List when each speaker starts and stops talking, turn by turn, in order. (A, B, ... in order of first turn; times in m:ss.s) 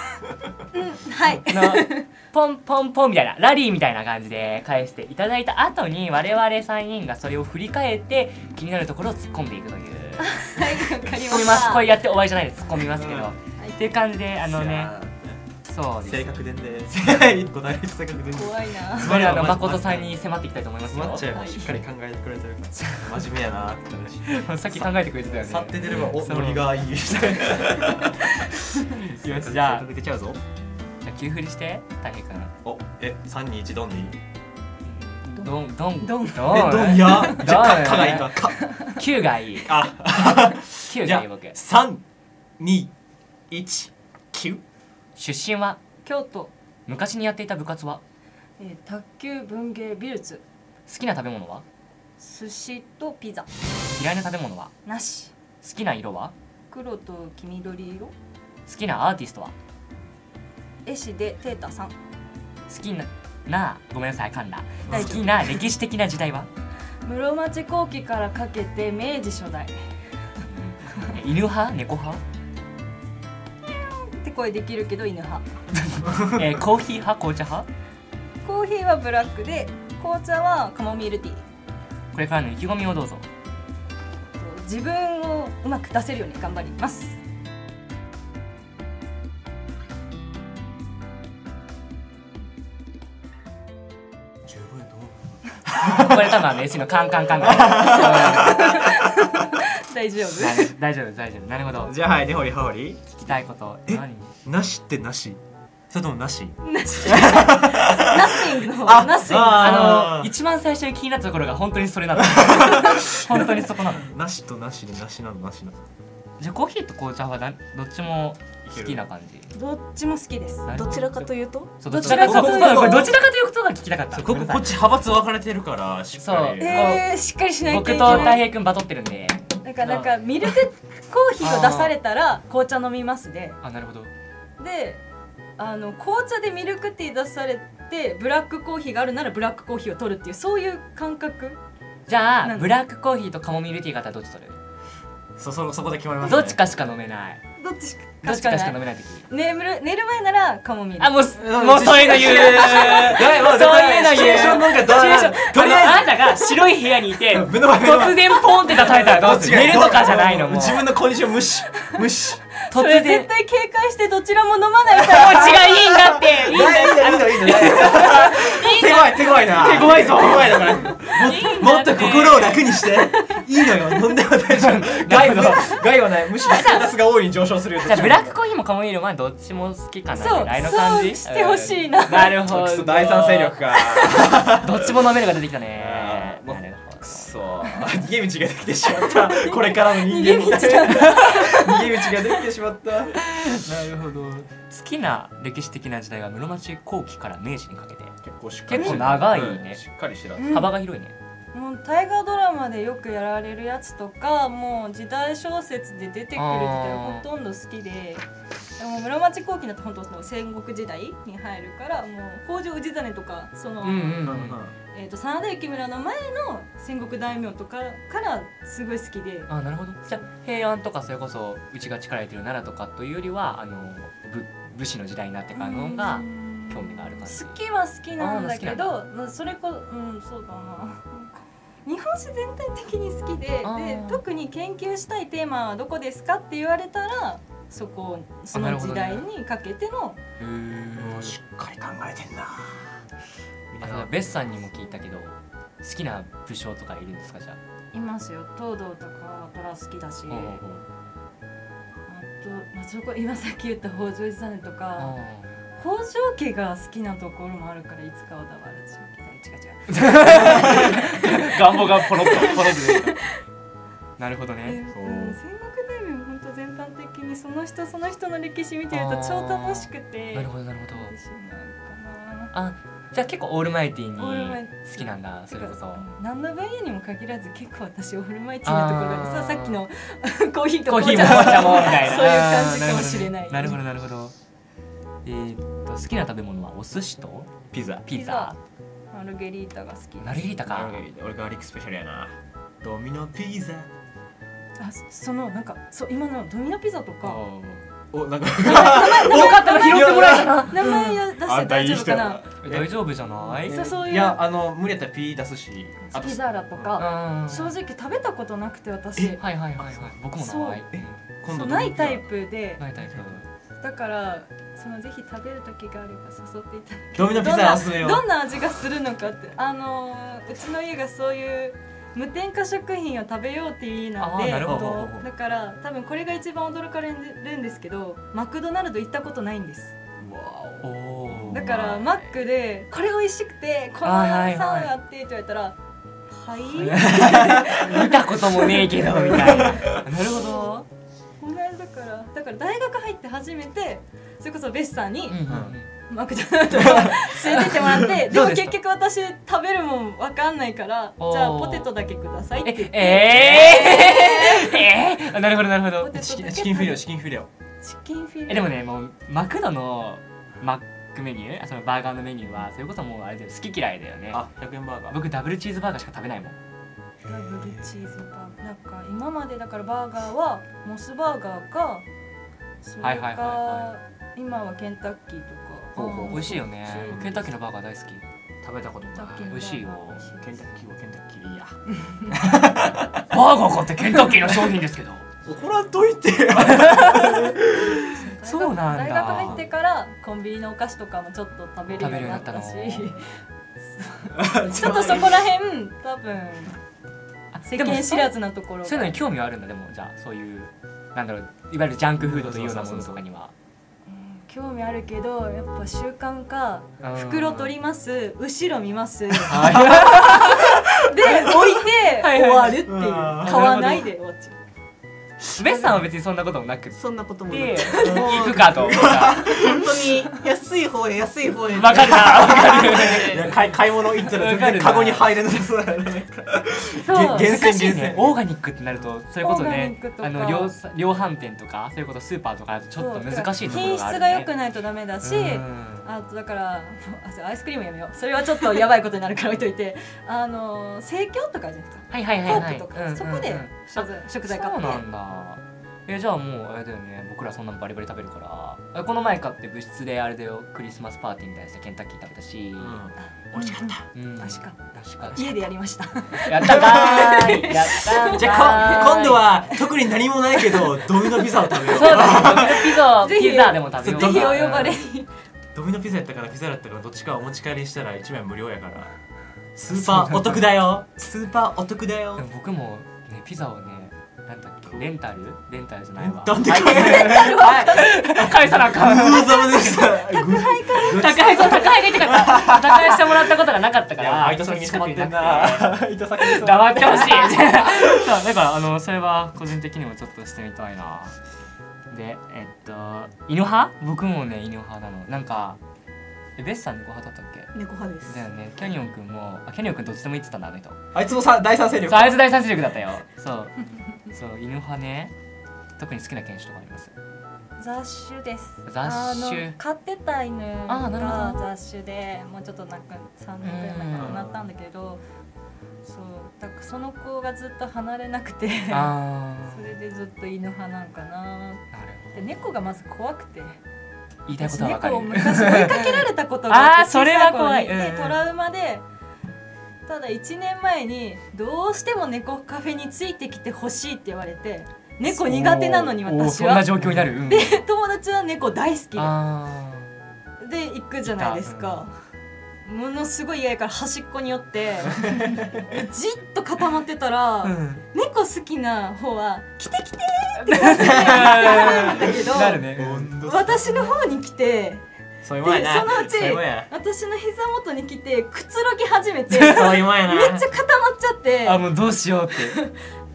0:00.7-0:02.0 A
0:01.4-0:14.9 B
0:10.2-0:11.9 A
0:12.9-0:13.3 C
0:13.6-0:13.9 A
0:14.5-0:15.4 C
0:15.6-0:17.0 B
0:16.0-0:20.2 C
0:18.3-0:19.2 A
0:19.0-0:21.3 B
0:20.9-0:30.4 C
0:21.3-0:21.7 A
0:22.8-0:23.2 B
0:24.2-0:29.8 B
0:31.0-0:32.5 B
0:32.6-0:34.2 C
0:34.8-0:38.3 B
0:36.0-0:36.4 A
0:36.4-0:38.6 C
0:38.9-0:39.8 B
0:39.6-0:42.0 C
0:40.8-0:41.6 B
0:42.6-0:42.9 C
0:43.5-0:44.6 C
0:45.2-0:45.8 B
0:46.0-0:46.5 A
0:46.9-0:48.0 B
0:48.6-0:50.4 A
0:50.9-0:51.6 B
0:52.2-0:53.5 A
0:53.9-0:54.7 B
0:54.8-0:55.3 A
0:55.6-0:56.3 B
0:56.7-0:58.1 A
0:58.7-0:59.5 B
1:00.8-1:01.9 A
1:02.7-1:06.5 B
1:04.8-1:05.4 C
1:04.9-1:05.2 A
1:07.0-1:09.7 A
1:10.5-1:12.2 B
1:13.6-1:15.4 A
1:15.8-1:17.7 B
1:18.4-1:21.4 A
1:22.1-1:23.2 B
1:24.4-1:27.2 A
1:34.4-1:36.5 C
1:35.8-1:38.7 B
1:37.3-1:38.7 C
1:37.8-1:40.7 A
1:40.4-1:42.0 B
1:41.7-1:43.0 C
1:43.1-1:44.3 B
1:43.9-1:45.4 C
1:45.9-1:50.3 C
1:46.6-1:49.7 A
1:49.5-1:54.1 B
1:52.3-1:55.8 C
1:56.4-1:59.5 B
1:58.7-1:59.0 C
1:59.5-2:00.9 A
2:00.6-2:01.3 B
2:00.7-2:01.9 D
2:01.8-2:04.7 B
2:01.9-2:03.0 A
2:01.9-2:03.2 C
2:04.1-2:07.0 C
2:06.2-2:07.0 B
2:06.6-2:08.4 A
2:07.6-2:10.1 B
2:09.6-2:13.6 A
2:11.4-2:11.9 B
2:13.6-2:14.1 B
2:14.6-2:15.0 A
2:15.6-2:21.6 A
2:22.1-2:24.6 B
2:22.4-2:22.7 A
2:25.4-2:26.6 C
2:26.2-2:27.4 B
2:27.6-2:31.4 A
2:28.2-2:29.2 B
2:31.0-2:41.0 B
2:31.3-2:36.4 C
2:37.2-2:42.4 C
2:42.7-2:43.3 B
2:42.7-2:45.6 A
2:44.9-2:52.8 B
2:45.5-2:58.3 C
2:46.5-2:46.8 A
2:54.5-2:55.8 B
2:56.4-2:56.9 B
2:57.8-3:03.8 B
3:00.2-3:02.4 A
3:02.4-3:04.9 C
3:04.3-3:07.4 B
3:05.7-3:13.7 C
3:10.0-3:11.9 A
3:13.2-3:18.1 B
3:18.2-3:20.7 C
3:18.7-3:19.8 B
3:20.4-3:20.7 A
3:20.5-3:21.1 B
3:21.5-3:28.2 A
3:26.4-3:27.2 B
3:28.8-3:34.2 A
3:33.8-3:34.6 B
3:34.2-3:34.7 C
3:34.9-3:39.5 A
3:39.5-3:47.6 B
3:45.5-4:00.2 A
3:48.2-3:48.9 B
3:53.6-3:54.2 B
3:58.5-3:59.2 B
4:00.4-4:01.4 B
4:01.0-4:03.0 C
4:03.7-4:04.6 C
4:03.8-4:07.6 B
4:07.9-4:10.6 A
4:10.3-4:10.8 B
4:12.1-4:15.1 A
4:15.0-4:15.5 B
4:15.8-4:20.8 A
4:19.9-4:23.0 B
4:20.2-4:23.2 C
4:22.2-4:23.2 A
4:24.2-4:24.8 B
4:24.6-4:32.5 A
4:24.9-4:25.4 C
4:28.9-4:31.1 B
4:32.5-4:36.1 B
4:34.2-4:43.8 A
4:38.6-4:39.8 B
4:40.8-4:44.3 B
4:41.3-4:41.7 D
4:45.2-4:47.5 B
4:47.7-4:48.1 C
4:48.0-4:48.6 B
4:48.1-4:48.5 A
4:49.1-4:50.5 A
4:50.2-4:51.0 B
4:50.7-4:53.9 C
4:54.8-4:57.4 A
4:57.2-4:57.8 B
4:58.1-5:07.0 C
4:58.6-5:02.4 A
4:58.6-5:01.1 B
5:02.6-5:03.8 B
5:03.7-5:04.4 A
5:06.0-5:09.4 A
5:07.0-5:07.7 B
5:09.2-5:10.1 C
5:09.4-5:11.2 B
5:10.4-5:10.8 A
5:10.9-5:12.3 C
5:11.5-5:12.8 A
5:12.8-5:13.4 B
5:13.0-5:13.4 C
5:13.8-5:29.9 A
5:17.1-5:18.2 C
5:24.2-5:25.1 B
5:24.6-5:25.3 C
5:30.2-5:32.2 C
5:30.8-5:31.8 B
5:31.5-5:35.8 A
5:34.0-5:34.9 B
5:36.3-5:38.9 A
5:36.7-5:40.8 B
5:38.9-5:40.1 C
5:40.1-5:40.8 A
5:41.4-5:45.4 A
5:45.3-5:45.9 B
5:45.5-5:45.8 C
5:46.1-5:54.6 A
5:46.8-5:47.3 C
5:47.4-5:48.7 B
5:51.2-5:51.9 B
5:52.6-5:56.2 B
5:54.0-5:54.5 D
5:56.0-5:57.0 A
5:56.1-5:57.5 C
5:57.8-5:58.8 A
5:58.5-6:04.4 B
6:04.3-6:05.2 C
6:05.1-6:06.6 B
6:07.2-6:12.0 A
6:07.6-6:08.0 C
6:12.8-6:17.2 A
6:13.0-6:13.9 B
6:15.9-6:17.4 C
6:16.2-6:18.2 B
6:18.6-6:19.6 C
6:19.1-6:20.5 A
6:19.5-6:20.3 B
6:20.3-6:21.8 C
6:22.3-6:23.2 C
6:22.3-6:25.2 B
6:25.4-6:28.1 C
6:26.6-6:27.6 B
6:28.1-6:36.8 A
6:28.4-6:29.6 B
6:31.9-6:33.1 B
6:34.3-6:35.3 C
6:37.5-6:38.3 B
6:37.6-6:39.2 A
6:38.8-6:43.5 B
6:42.2-6:43.2 C
6:44.1-6:54.6 A
6:47.0-6:47.7 B
6:49.5-6:50.8 B
6:49.5-6:50.1 C
6:52.2-6:52.9 B
6:52.8-6:53.7 C
6:53.4-6:54.1 B
6:55.6-6:59.6 B
6:56.9-7:03.4 D
6:57.7-6:58.3 A
6:58.0-7:00.1 C
6:59.8-7:00.4 A
7:01.7-7:03.5 B
7:02.5-7:08.4 C
7:04.2-7:05.3 B
7:07.0-7:07.5 A
7:07.1-7:14.5 B
7:09.4-7:10.7 A
7:12.9-7:25.0 A
7:15.2-7:16.1 B
7:22.1-7:33.0 B
7:32.8-7:34.0 C
7:34.1-7:35.6 B
7:34.4-7:36.7 A
7:36.4-7:39.5 B
7:36.8-7:37.6 D
7:36.8-7:37.3 C
7:38.0-7:43.0 C
7:41.8-7:45.0 B
7:43.2-7:45.3 A
7:44.0-7:44.6 C
7:45.7-7:49.1 C
7:49.8-7:52.4 C
7:49.9-7:50.6 B
7:52.4-8:00.0 B
7:56.2-8:03.6 C
7:57.4-7:58.2 A
7:59.4-8:02.1 A
8:01.0-8:11.3 B
8:04.2-8:08.3 C
8:12.1-8:15.8 B
8:16.6-8:17.7 B
8:17.7-8:18.4 D
8:18.3-8:21.0 B
8:21.1-8:22.5 C
8:22.1-8:25.3 B
8:26.0-8:27.1 B
8:27.8-8:35.2 A
8:28.8-8:29.8 B
8:30.9-8:31.6 B
8:33.6-8:34.4 B
8:34.1-8:34.6 C
8:36.0-8:39.1 A
8:38.9-8:39.9 B
8:39.7-8:43.8 A
8:41.9-8:42.5 B
8:44.4-8:48.4 B
8:44.6-8:49.0 A
8:50.1-8:59.4 A
8:55.3-8:57.8 B
8:59.2-9:00.1 B
9:00.6-9:02.1 A
9:01.2-9:02.0 B
9:02.8-9:12.8 A
9:07.6-9:08.0 B
9:10.6-9:13.3 B
9:11.0-9:12.0 D
9:12.8-9:14.2 C
9:13.4-9:15.0 A
9:15.4-9:16.9 C
9:15.6-9:21.9 A
9:19.5-9:20.0 B
9:19.5-9:20.7 C
9:21.6-9:22.8 B
9:22.6-9:22.9 A